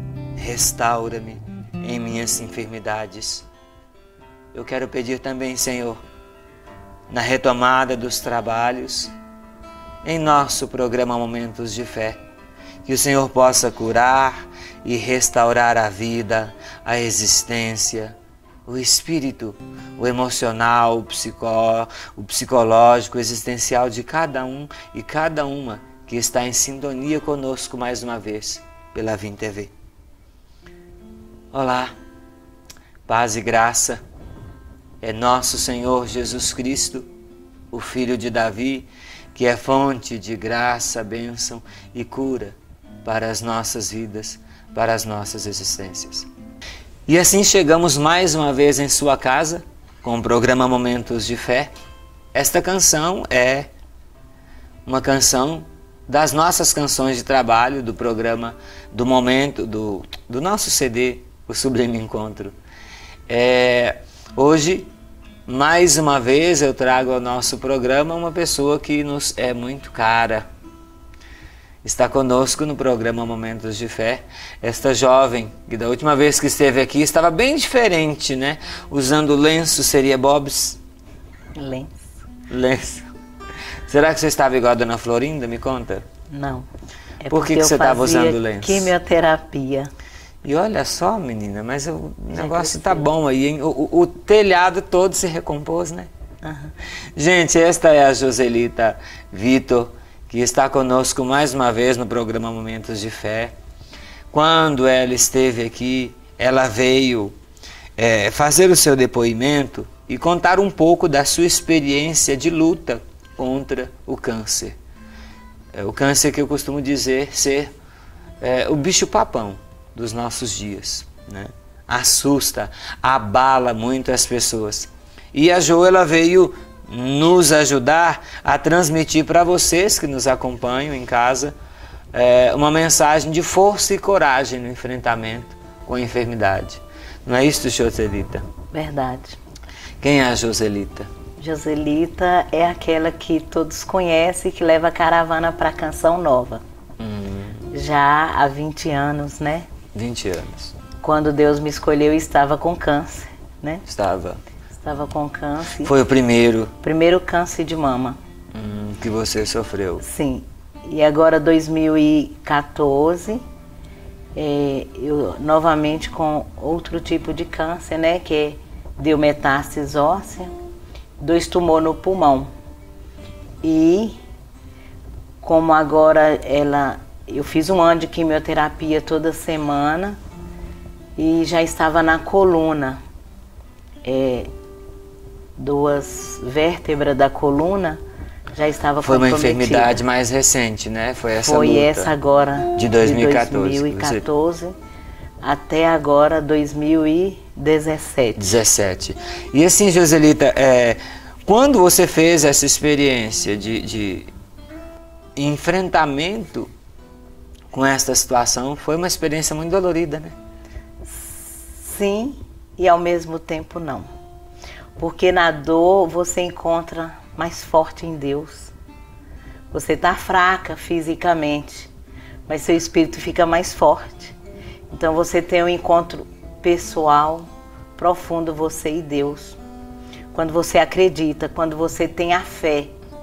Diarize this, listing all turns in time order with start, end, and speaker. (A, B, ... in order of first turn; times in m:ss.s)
0:00.4-0:03.5 A
0:04.5-0:06.0 A
0:07.1-0:09.1 A
0:10.0-0:12.2 A
0:12.8-0:29.7 A
0:31.5-0:31.9 A
0:33.0-0:34.0 A
0:35.0-0:37.1 A
0:37.7-0:46.3 A
0:47.1-0:51.7 A
0:52.3-0:53.7 A
0:54.8-1:02.6 A
1:03.3-1:04.9 A
1:05.5-1:10.5 A
1:11.8-1:20.8 A
1:21.6-1:22.0 B
1:22.5-1:23.1 A
1:23.8-1:26.0 A
1:26.3-1:26.7 B
1:27.2-1:29.9 B
1:27.3-1:28.9 A
1:30.4-1:36.1 A
1:32.4-1:33.0 B
1:36.4-1:36.7 B
1:37.2-1:43.5 A
1:44.3-1:47.4 A
1:48.0-1:54.8 A
1:55.7-1:57.7 A
1:58.4-2:11.6 A
2:12.1-2:18.4 A
2:18.7-2:19.4 B
2:20.0-2:21.1 A
2:21.4-2:26.6 B
2:27.0-2:27.7 A
2:27.7-2:29.7 B
2:29.9-2:30.7 A
2:31.0-2:33.8 B
2:33.9-2:34.4 A
2:34.7-2:35.9 B
2:35.8-2:36.7 A
2:36.8-2:38.2 B
2:38.5-2:40.0 A
2:40.0-2:43.4 B
2:44.3-2:50.5 B
2:51.2-2:52.5 B
2:53.6-2:54.2 B
2:55.4-3:00.2 B
3:01.2-3:03.0 B
3:04.0-3:04.5 B
3:05.6-3:08.0 B
3:08.5-3:10.0 B
3:09.0-3:12.1 A
3:11.4-3:14.7 B
3:12.7-3:14.2 A
3:15.4-3:18.5 B
3:18.4-3:24.3 A
3:25.4-3:26.7 A
3:27.7-3:30.4 A
3:31.2-3:34.1 B
3:35.0-3:38.7 B
3:39.7-3:41.9 B
3:42.5-3:44.3 B
3:44.9-3:49.6 B
3:50.3-3:52.9 B